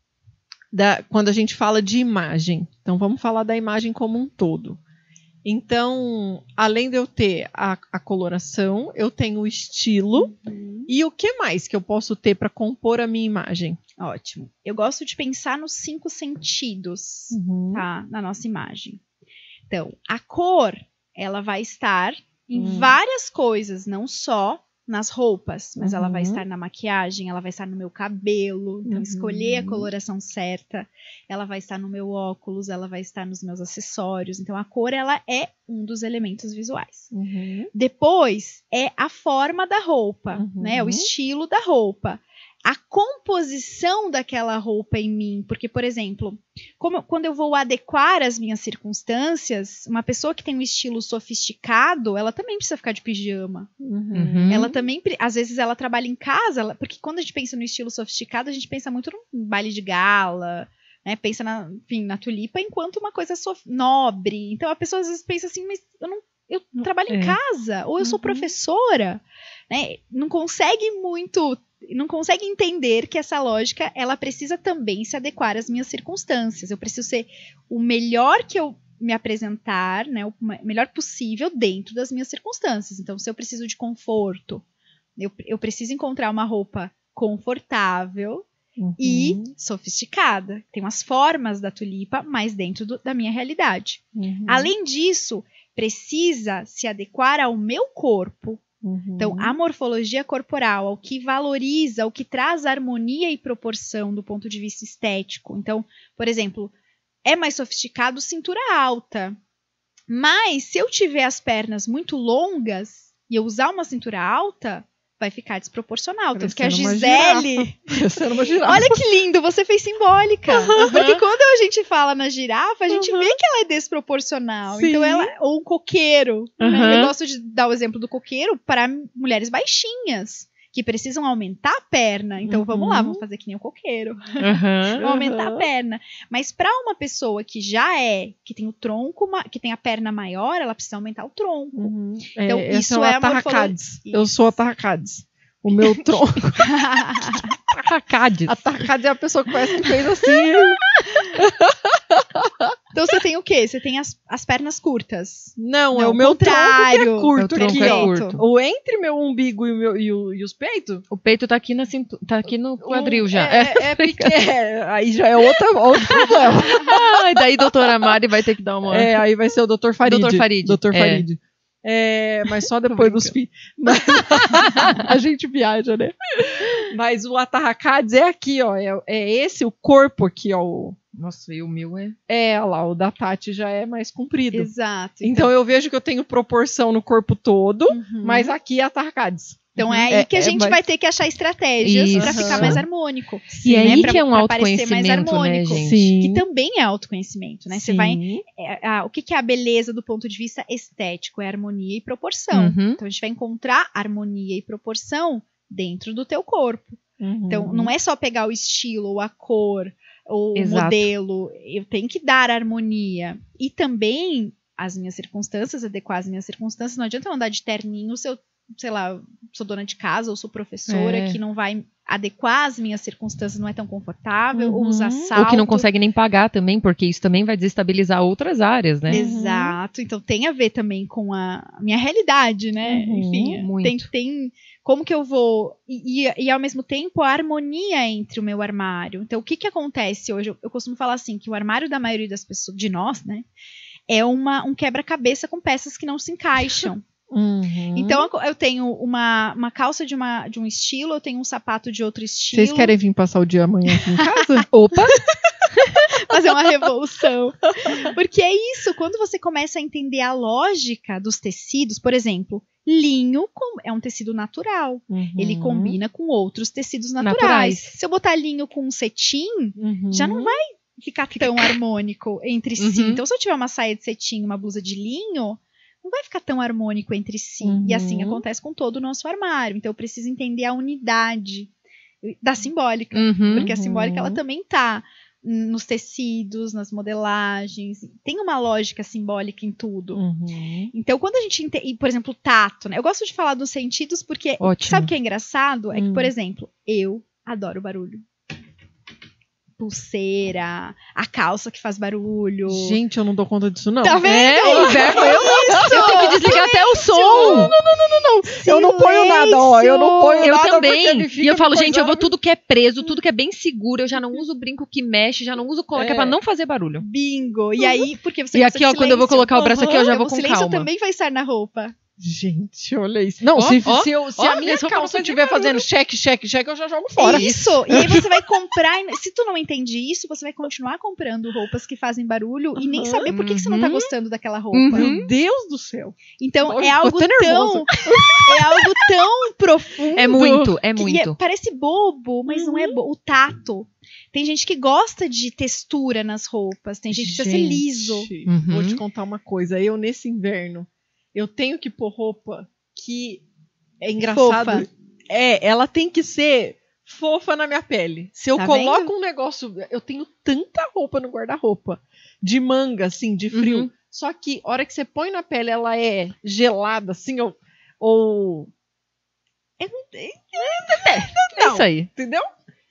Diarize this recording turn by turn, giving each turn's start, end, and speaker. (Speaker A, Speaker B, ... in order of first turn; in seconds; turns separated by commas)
Speaker A: 0.7-4.8, Speaker A: 5.4-10.3, Speaker B: 10.2-10.9, Speaker A: 10.9-13.8, Speaker B: 14.0-19.0, Speaker A: 17.3-17.9, Speaker B: 19.7-37.1, Speaker A: 22.5-23.0, Speaker A: 25.8-26.4, Speaker A: 28.8-29.9, Speaker A: 37.1-37.7, Speaker B: 37.7-53.7, Speaker A: 40.3-41.1, Speaker A: 53.8-54.8, Speaker C: 54.1-54.6, Speaker B: 54.5-84.6, Speaker C: 67.1-67.4, Speaker A: 68.0-68.4, Speaker B: 85.2-88.5, Speaker A: 88.8-89.5, Speaker B: 89.0-98.6, Speaker A: 94.1-94.7, Speaker A: 98.8-99.5, Speaker B: 99.2-106.7, Speaker B: 107.2-109.4, Speaker B: 110.1-118.0, Speaker A: 116.3-119.0, Speaker B: 118.6-144.6, Speaker A: 120.8-121.1, Speaker C: 120.8-121.1, Speaker A: 122.9-123.3, Speaker A: 124.7-125.3, Speaker C: 126.6-127.1, Speaker A: 126.6-127.0, Speaker A: 132.4-133.2, Speaker C: 134.4-135.1, Speaker A: 134.9-135.6, Speaker A: 141.7-146.8, Speaker B: 146.6-147.6, Speaker C: 147.8-148.6, Speaker A: 148.4-150.8, Speaker C: 150.9-151.4, Speaker B: 152.9-158.4, Speaker A: 155.6-161.0, Speaker C: 157.3-158.4, Speaker C: 161.1-164.4, Speaker A: 162.8-167.1, Speaker C: 166.1-169.2, Speaker A: 168.9-181.0, Speaker C: 170.0-171.3, Speaker C: 172.9-173.3, Speaker C: 174.1-175.0, Speaker C: 181.1-182.2, Speaker A: 182.3-184.7, Speaker B: 184.5-185.5, Speaker A: 185.2-190.4, Speaker B: 187.9-188.5, Speaker B: 189.8-225.9, Speaker C: 189.8-190.8, Speaker C: 191.8-192.9, Speaker A: 192.1-192.8, Speaker C: 193.5-196.1, Speaker A: 193.6-194.2, Speaker A: 195.7-196.4, Speaker A: 197.7-198.4, Speaker C: 202.5-203.0, Speaker A: 207.2-207.9, Speaker C: 210.5-211.1, Speaker C: 220.9-221.4, Speaker C: 224.6-229.2, Speaker A: 224.8-225.3, Speaker B: 229.1-243.5, Speaker A: 229.1-229.8, Speaker A: 232.8-233.6, Speaker C: 233.2-234.1, Speaker B: 244.1-247.0, Speaker A: 247.3-248.3, Speaker B: 247.9-252.9, Speaker A: 252.5-255.2, Speaker B: 253.9-255.1, Speaker B: 256.1-290.2, Speaker A: 265.1-266.0, Speaker C: 267.2-267.9, Speaker A: 269.8-270.6, Speaker C: 271.4-271.7, Speaker C: 272.8-273.2, Speaker A: 277.6-278.4, Speaker C: 283.1-283.7, Speaker A: 283.5-284.4, Speaker A: 290.1-290.9, Speaker B: 290.9-298.2, Speaker C: 294.6-295.1, Speaker A: 295.9-296.3, Speaker B: 299.8-303.0, Speaker A: 302.6-306.6, Speaker B: 304.0-307.8, Speaker C: 304.2-307.7, Speaker A: 307.2-312.3, Speaker B: 308.4-310.9, Speaker C: 310.4-317.0, Speaker A: 316.0-316.4, Speaker B: 317.0-321.9, Speaker C: 318.5-320.9, Speaker A: 319.5-320.1, Speaker A: 322.2-328.3, Speaker C: 323.5-325.9, Speaker B: 327.1-335.1, Speaker C: 327.2-328.3, Speaker A: 332.8-333.3, Speaker C: 333.2-334.1, Speaker C: 334.7-335.3, Speaker A: 334.9-339.0, Speaker B: 336.4-340.4, Speaker C: 340.1-341.4, Speaker A: 340.2-340.7, Speaker B: 340.9-348.3, Speaker A: 342.5-343.0, Speaker A: 347.1-353.4, Speaker C: 348.4-349.0, Speaker A: 354.0-368.7, Speaker B: 354.2-354.9, Speaker B: 358.5-359.1, Speaker C: 363.5-363.9, Speaker B: 369.8-371.7, Speaker C: 370.9-372.1, Speaker A: 371.4-372.5